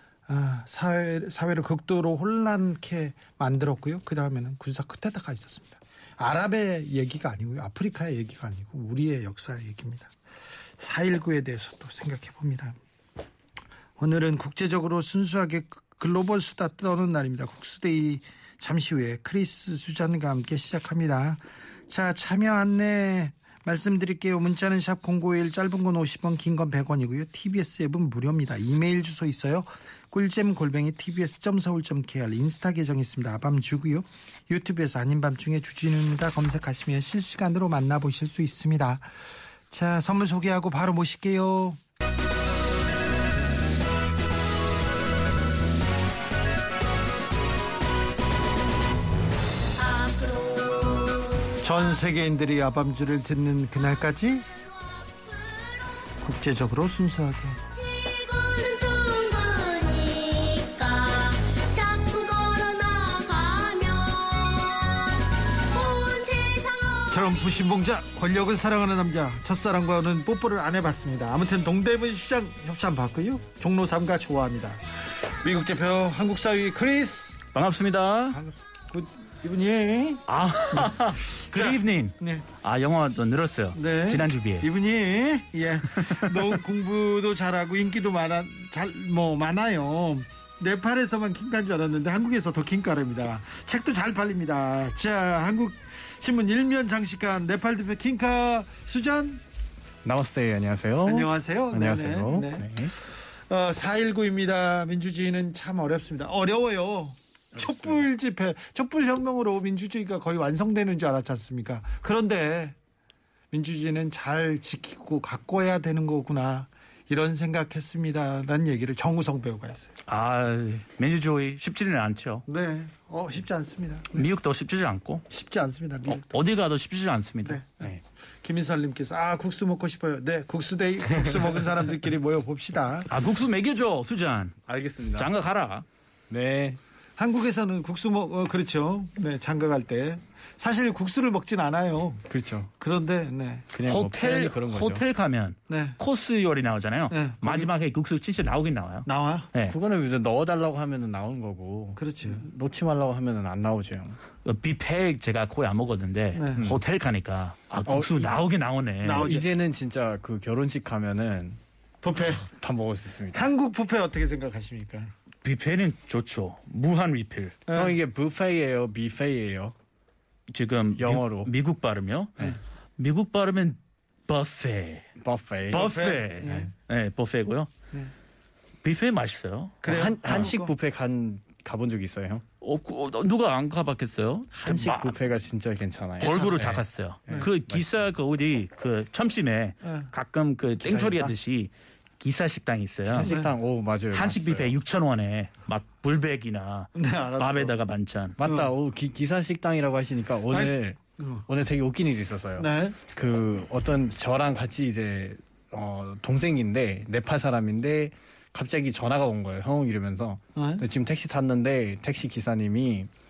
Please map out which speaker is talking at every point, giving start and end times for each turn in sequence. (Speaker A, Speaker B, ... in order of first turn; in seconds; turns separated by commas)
Speaker A: 0.3-10.1, Speaker A: 10.8-12.8, Speaker A: 14.0-39.1, Speaker A: 39.7-41.8, Speaker B: 49.8-51.7, Speaker A: 51.6-54.5, Speaker A: 56.2-57.6, Speaker B: 57.7-67.4, Speaker A: 67.1-77.4, Speaker C: 77.5-78.4, Speaker A: 78.3-82.5, Speaker C: 80.3-84.7, Speaker A: 83.7-99.4, Speaker C: 85.9-86.4, Speaker D: 100.0-102.9, Speaker A: 101.0-112.8, Speaker A: 113.5-119.9, Speaker C: 120.1-122.4, Speaker A: 122.5-124.3, Speaker C: 124.1-125.2, Speaker A: 125.3-126.3, Speaker C: 126.1-127.6, Speaker A: 127.4-127.9, Speaker A: 128.4-133.1, Speaker C: 133.1-134.6, Speaker D: 134.7-135.3, Speaker C: 135.2-135.8, Speaker D: 136.3-136.8, Speaker A: 137.2-142.2, Speaker D: 142.3-142.7, Speaker A: 142.8-143.7, Speaker D: 143.7-145.0, Speaker C: 143.8-149.8, Speaker A: 145.7-146.0, Speaker A: 147.1-147.7, Speaker A: 149.1-149.5, Speaker D: 149.7-154.2, Speaker A: 152.0-152.4, Speaker C: 154.4-159.3, Speaker A: 156.3-156.7, Speaker D: 157.9-158.3, Speaker A: 159.0-159.5, Speaker D: 159.2-161.6, Speaker A: 162.0-162.5, Speaker D: 162.6-163.5, Speaker A: 163.3-165.1, Speaker C: 165.4-167.6, Speaker A: 167.7-167.9, Speaker D: 167.7-169.7, Speaker C: 170.5-175.1, Speaker D: 171.0-171.5, Speaker D: 175.2-176.7, Speaker C: 175.7-177.7, Speaker A: 175.7-176.7, Speaker C: 178.8-180.4, Speaker A: 179.8-180.7, Speaker D: 179.8-182.4, Speaker C: 182.6-185.1, Speaker D: 184.5-188.0, Speaker A: 184.7-184.9, Speaker C: 186.2-193.3, Speaker A: 186.2-186.5, Speaker A: 189.8-190.1, Speaker D: 190.8-191.3, Speaker D: 193.1-194.8, Speaker A: 193.2-193.5, Speaker C: 194.1-198.4, Speaker A: 196.9-197.8, Speaker D: 198.4-213.1, Speaker A: 198.4-198.7, Speaker A: 200.5-201.4, Speaker A: 202.6-203.0, Speaker A: 210.6-210.8